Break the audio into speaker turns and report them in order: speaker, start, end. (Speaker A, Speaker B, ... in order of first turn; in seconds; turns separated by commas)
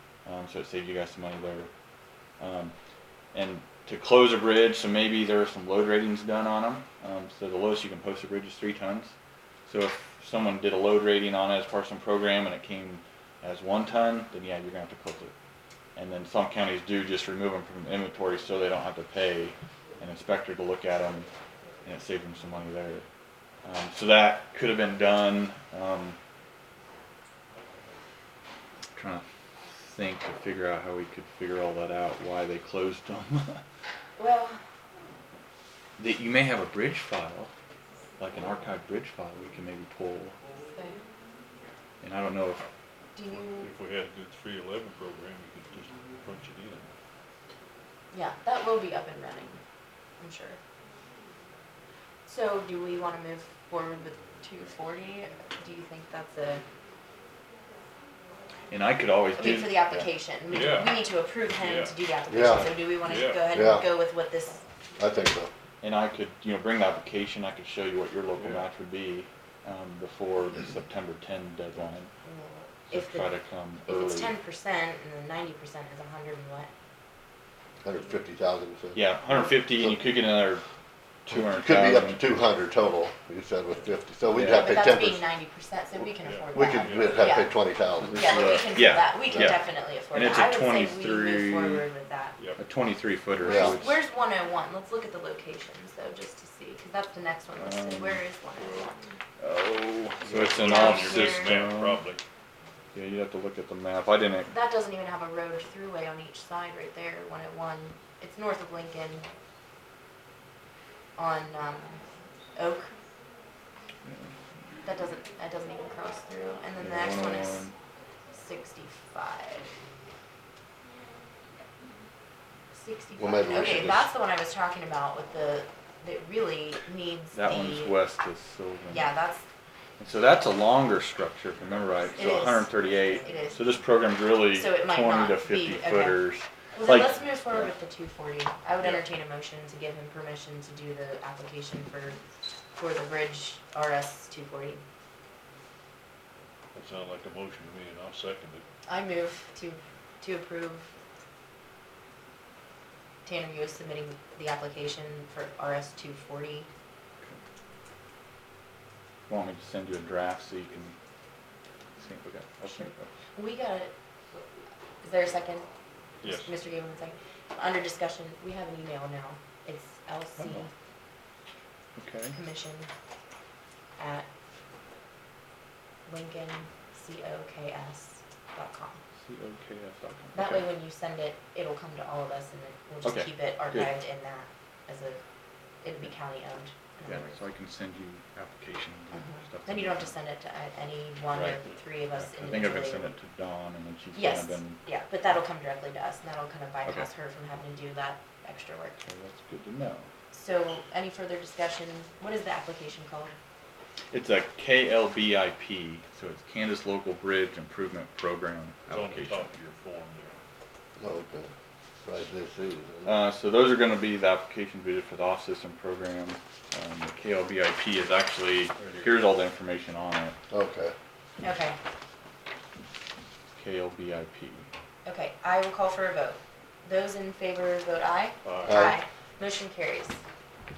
Speaker A: 0.2-1.7, Speaker A: 2.4-2.7, Speaker A: 3.3-9.2, Speaker A: 9.7-15.3, Speaker A: 16.0-21.3, Speaker A: 21.9-23.1, Speaker A: 23.6-26.2, Speaker A: 28.9-29.2, Speaker A: 29.8-33.6, Speaker B: 34.2-34.6, Speaker A: 36.0-37.5, Speaker A: 38.2-40.4, Speaker B: 40.7-41.0, Speaker A: 42.0-42.7, Speaker B: 43.1-43.7, Speaker C: 43.6-46.9, Speaker B: 48.1-49.6, Speaker B: 50.2-50.6, Speaker B: 52.3-56.6, Speaker A: 58.7-60.1, Speaker B: 59.4-64.6, Speaker C: 60.5-62.0, Speaker D: 62.3-62.7, Speaker C: 63.0-63.6, Speaker D: 63.5-63.9, Speaker D: 65.0-65.5, Speaker A: 65.8-72.1, Speaker C: 68.4-68.7, Speaker B: 72.2-73.3, Speaker A: 72.9-74.3, Speaker B: 73.8-76.7, Speaker D: 77.8-79.0, Speaker A: 79.0-80.7, Speaker D: 79.6-80.0, Speaker A: 81.2-82.2, Speaker D: 81.3-85.2, Speaker A: 84.3-84.7, Speaker B: 84.5-87.5, Speaker C: 86.2-87.5, Speaker D: 86.5-88.5, Speaker A: 87.9-91.9, Speaker B: 88.1-92.4, Speaker D: 89.3-89.6, Speaker C: 92.4-92.6, Speaker A: 92.6-94.0, Speaker B: 93.4-99.0, Speaker D: 93.4-93.8, Speaker A: 97.6-98.2, Speaker C: 98.6-98.9, Speaker A: 99.4-102.0, Speaker C: 100.2-102.2, Speaker B: 100.6-101.7, Speaker A: 102.9-104.5, Speaker B: 104.5-109.3, Speaker B: 111.2-112.0, Speaker B: 112.6-113.0, Speaker A: 114.1-114.3, Speaker B: 114.8-117.7, Speaker A: 116.8-117.7, Speaker B: 118.3-119.7, Speaker B: 122.7-128.0, Speaker D: 123.2-124.1, Speaker A: 127.3-129.1, Speaker B: 128.9-129.4, Speaker A: 130.0-137.7, Speaker B: 132.2-133.6, Speaker B: 134.4-142.2, Speaker B: 142.7-144.8, Speaker C: 146.7-148.6, Speaker B: 148.9-150.9, Speaker B: 153.2-156.7, Speaker A: 159.3-160.9, Speaker A: 162.0-163.1, Speaker B: 162.7-164.5, Speaker B: 165.0-165.7, Speaker C: 166.2-166.5, Speaker B: 166.2-170.7, Speaker A: 170.4-170.7, Speaker A: 172.0-172.4, Speaker B: 172.3-172.9, Speaker B: 174.0-174.3, Speaker B: 176.1-179.0, Speaker A: 179.2-180.7, Speaker B: 180.3-185.2, Speaker A: 183.0-183.9, Speaker B: 185.8-187.4, Speaker A: 187.1-190.2, Speaker B: 189.1-193.1, Speaker A: 191.3-194.8, Speaker B: 194.1-199.0, Speaker A: 199.0-200.1, Speaker B: 200.3-203.3, Speaker A: 204.1-209.6, Speaker C: 208.9-210.4, Speaker D: 211.0-211.5, Speaker D: 212.1-213.1, Speaker A: 213.1-220.4, Speaker C: 218.8-219.1, Speaker D: 220.5-220.9, Speaker B: 221.4-221.8, Speaker A: 223.5-224.7, Speaker B: 225.1-230.2, Speaker C: 228.4-228.9, Speaker D: 228.7-229.0